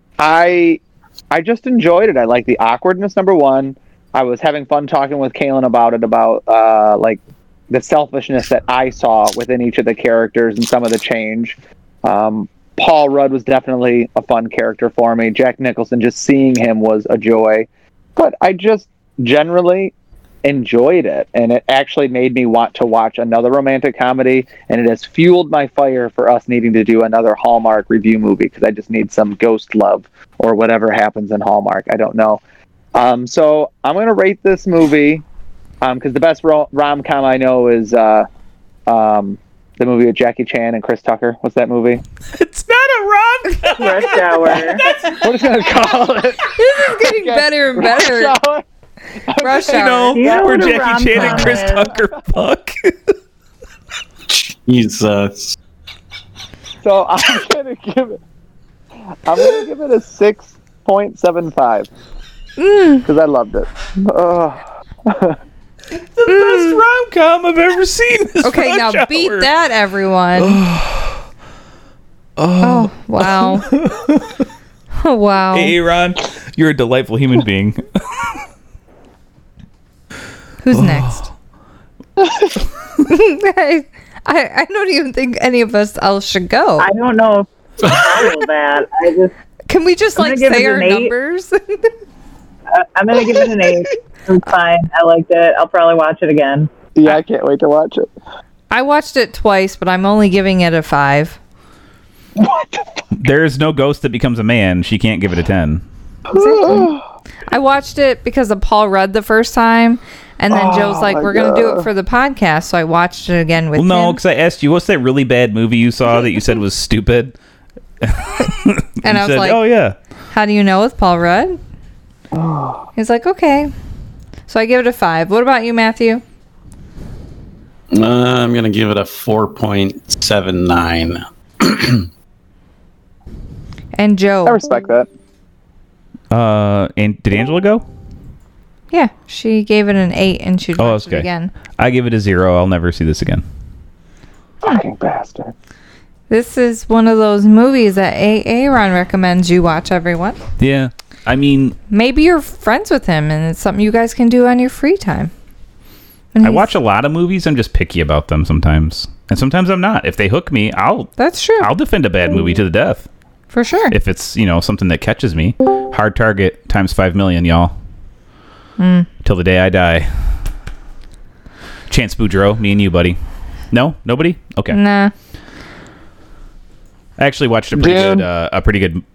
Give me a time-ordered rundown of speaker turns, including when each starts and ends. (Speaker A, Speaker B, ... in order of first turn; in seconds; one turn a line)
Speaker A: 0.2-19.9
Speaker A: 20.4-32.4
Speaker A: 32.9-35.2
Speaker A: 35.8-38.3
Speaker A: 38.9-42.0
Speaker B: 42.3-45.3
Speaker C: 43.7-44.9
Speaker A: 45.1-48.6
Speaker D: 46.5-48.4
Speaker A: 49.3-50.8
Speaker D: 49.4-51.6
Speaker B: 49.7-53.1
Speaker C: 50.1-51.9
Speaker E: 54.3-55.6
Speaker A: 56.8-58.2
Speaker A: 59.3-61.9
Speaker D: 62.6-63.1
Speaker A: 63.0-65.4
Speaker B: 66.0-69.5
Speaker D: 66.3-66.8
Speaker D: 68.4-70.6
Speaker B: 70.4-71.2
Speaker B: 72.4-74.4
Speaker D: 72.6-73.7
Speaker D: 75.0-75.8
Speaker B: 75.5-78.4
Speaker D: 80.6-81.3
Speaker B: 80.7-81.3
Speaker D: 83.0-86.9
Speaker C: 86.8-89.3
Speaker E: 87.8-88.2
Speaker D: 89.7-91.9
Speaker C: 90.2-91.1
Speaker C: 92.7-96.7
Speaker A: 97.0-98.1
Speaker D: 98.7-101.4
Speaker A: 102.4-102.8
Speaker B: 103.1-105.8
Speaker A: 106.3-107.0
Speaker D: 106.3-106.9
Speaker D: 107.5-114.2
Speaker A: 110.5-111.9
Speaker B: 113.8-117.3
Speaker B: 118.0-120.0
Speaker D: 119.0-119.6
Speaker D: 120.3-121.6
Speaker A: 122.3-122.9
Speaker D: 123.0-123.7
Speaker D: 124.5-126.2
Speaker E: 127.9-132.1
Speaker D: 133.9-134.6
Speaker A: 134.4-135.1
Speaker B: 136.3-137.8
Speaker D: 138.9-141.6
Speaker B: 140.8-143.4
Speaker A: 144.6-145.5
Speaker D: 146.3-150.4
Speaker B: 150.6-151.8
Speaker D: 151.9-155.3
Speaker D: 156.3-156.7
Speaker B: 156.4-163.1
Speaker D: 161.2-161.7
Speaker D: 163.5-164.0
Speaker B: 163.9-167.7
Speaker D: 168.8-169.1
Speaker B: 169.2-170.1
Speaker B: 171.9-173.2
Speaker B: 173.7-174.8
Speaker D: 174.7-175.1
Speaker B: 177.2-179.1
Speaker A: 177.7-178.3